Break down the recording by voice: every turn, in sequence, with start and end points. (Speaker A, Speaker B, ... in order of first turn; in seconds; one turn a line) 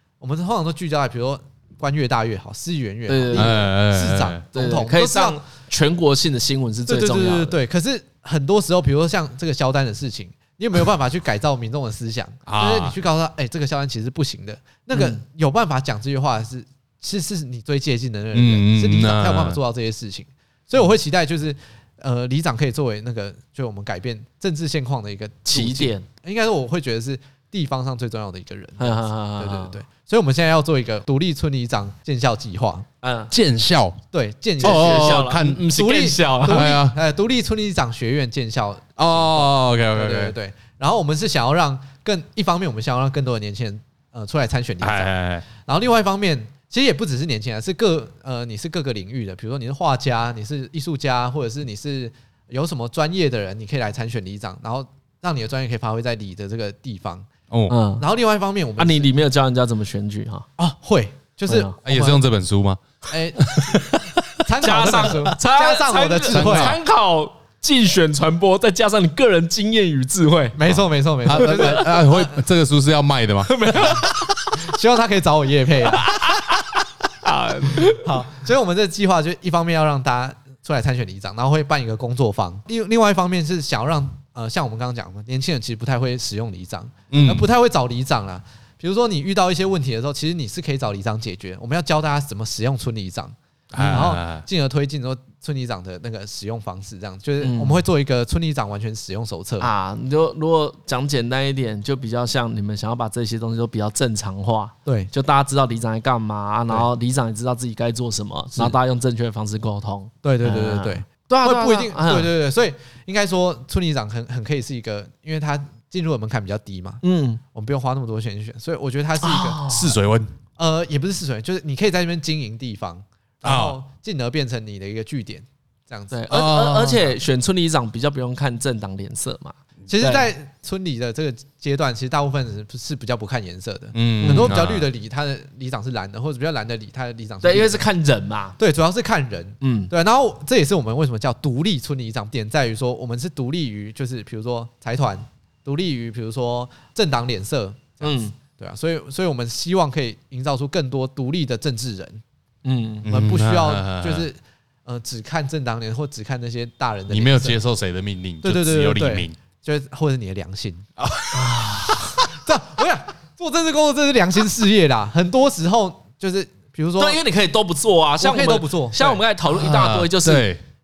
Speaker A: 0.2-5.4
Speaker B: 3.1-3.6
Speaker C: 3.3-4.4
Speaker B: 4.5-7.6
Speaker A: 6.9-32.9
Speaker C: 12.5-12.9
Speaker B: 14.9-15.2
Speaker C: 18.3-19.6
Speaker B: 25.4-26.1
Speaker B: 28.8-29.8
Speaker B: 33.0-33.3
Speaker C: 33.3-34.0
Speaker A: 34.1-57.3
Speaker C: 34.6-35.7
Speaker B: 34.6-36.7
Speaker C: 36.5-37.0
Speaker C: 39.0-40.4
Speaker C: 44.8-45.4
Speaker C: 57.5-57.7
Speaker B: 57.7-58.0
Speaker A: 58.0-59.1
Speaker B: 58.8-60.5
Speaker A: 60.6-62.2
Speaker B: 61.5-61.8
Speaker C: 61.8-62.8
Speaker A: 63.0-63.9
Speaker C: 63.4-64.0
Speaker A: 64.4-66.8
Speaker B: 64.6-70.6
Speaker C: 66.3-66.8
Speaker A: 70.5-72.4
Speaker C: 70.7-73.6
Speaker B: 71.3-71.8
Speaker B: 73.5-74.7
Speaker A: 74.5-76.1
Speaker B: 75.9-76.6
Speaker B: 77.2-78.1
Speaker A: 77.8-99.7
Speaker C: 87.1-87.5
Speaker C: 93.7-94.4
Speaker B: 97.4-97.8
Speaker B: 99.6-112.3
Speaker A: 104.8-105.1
Speaker A: 110.2-117.0
Speaker B: 117.0-117.4
Speaker A: 117.5-119.6
Speaker B: 119.2-120.0
Speaker C: 119.7-120.3
Speaker A: 120.6-127.2
Speaker C: 123.4-123.8
Speaker B: 126.1-130.3
Speaker C: 126.3-126.9
Speaker A: 129.9-137.8
Speaker C: 133.9-134.9
Speaker B: 137.4-138.6
Speaker A: 138.6-152.2
Speaker B: 139.6-139.9
Speaker B: 148.0-148.3
Speaker B: 152.6-153.1
Speaker C: 153.0-154.3
Speaker A: 153.1-157.6
Speaker C: 157.1-159.3
Speaker A: 158.4-160.9
Speaker C: 161.0-161.7
Speaker B: 161.3-162.2
Speaker A: 162.3-167.2
Speaker B: 167.0-170.5
Speaker A: 168.2-169.2
Speaker C: 169.5-170.6